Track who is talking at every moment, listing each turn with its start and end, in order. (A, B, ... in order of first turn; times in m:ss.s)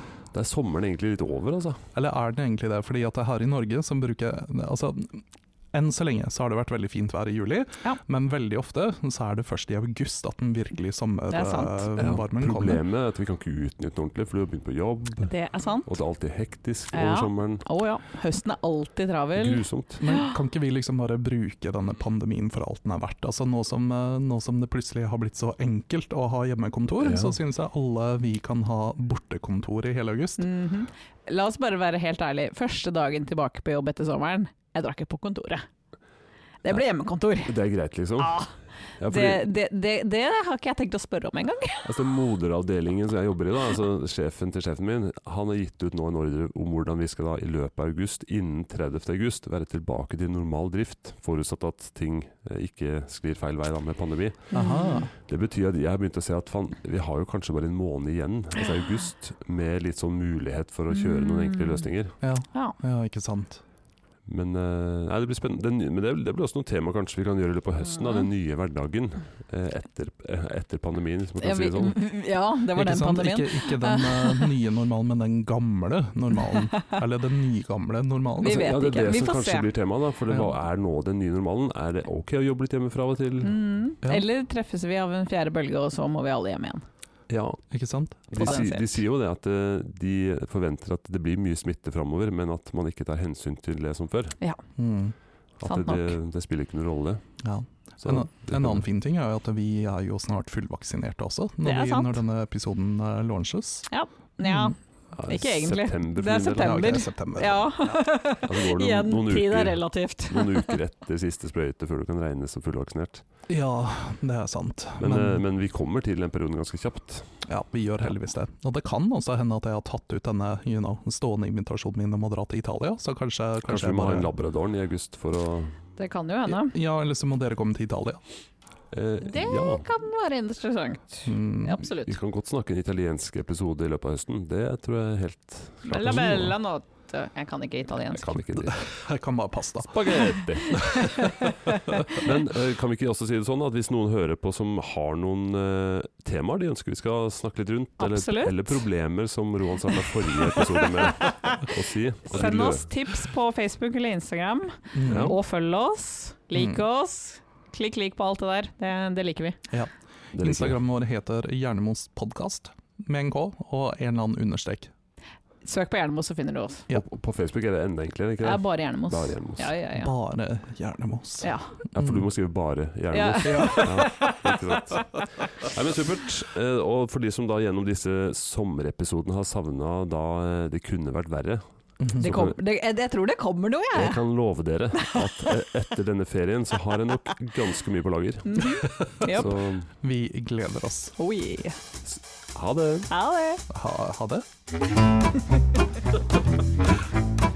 0:00.3-0:01.8 A
0:01.9-0:12.8 B
0:11.3-0:11.9 C
0:12.0-0:15.3 A
0:15.3-0:15.9 C
0:15.8-0:17.7 A
0:16.9-0:20.3 C
0:19.4-0:20.0 A
0:20.0-0:30.5 B
0:27.0-0:27.4 A
0:30.4-0:35.7 C
0:36.6-0:37.6 C
0:37.5-0:38.4 A
0:38.2-0:38.5 C
0:39.0-0:39.5 A
0:39.1-0:41.9 C
0:41.8-0:54.5 A
0:54.5-0:55.1 C
0:54.5-0:55.1 B
0:55.2-1:02.2 A
1:00.9-1:01.9 C
1:02.2-1:03.6 B
1:04.3-1:12.0 A
1:11.4-1:14.5 C
1:12.7-1:18.7 B
1:18.4-1:19.7 C
1:18.4-1:23.6 A
1:20.3-1:20.5 B
1:23.4-1:26.8 C
1:27.3-1:27.6 A
1:27.7-1:28.6 B
1:28.3-1:34.4 A
1:28.4-1:28.9 C
1:34.8-1:35.2 B
1:35.6-1:37.2 A
1:35.6-1:36.1 C
1:37.4-1:43.9 B
1:38.0-1:38.8 A
1:41.6-1:42.2 C
1:43.9-1:44.8 C
1:44.4-1:44.8 B
1:45.1-1:47.0 A
1:45.3-1:50.8 C
1:46.6-1:48.0 B
1:48.4-1:53.2 A
1:53.5-1:55.4 B
1:55.0-1:57.3 A
1:57.5-2:04.3 B
2:03.6-2:05.8 A
2:06.0-2:06.8 C
2:06.5-2:08.2 B
2:08.9-2:09.9 A
2:09.2-2:12.2 C
2:11.3-2:11.8 B
2:12.1-2:16.6 A
2:15.9-2:18.4 C
2:18.1-2:18.8 A
2:18.6-2:20.0 B
2:19.8-2:21.5 A
2:20.7-2:22.2 C
2:22.0-2:32.9 A
2:28.0-2:28.8 C
2:30.0-2:31.7 C
2:32.3-2:39.6 C
2:34.9-2:35.4 B
2:35.1-2:35.4 A
2:36.6-2:36.8 B
2:39.7-2:44.9 B
2:40.3-2:40.8 A
2:45.6-2:46.9 C
2:46.9-2:49.7 A
2:48.4-2:50.1 C
2:49.9-2:52.2 B
2:51.4-2:51.8 C
2:52.0-3:02.6 A
2:53.1-2:55.0 C
2:53.4-2:54.3 B
3:02.0-3:02.4 B
3:02.2-3:04.2 C
3:03.9-3:09.9 A
3:05.0-3:05.5 C
3:08.5-3:09.5 C
3:09.2-3:11.2 B
3:11.2-3:11.8 C
3:12.0-3:13.1 A
3:13.1-3:13.6 C
3:13.7-3:14.5 B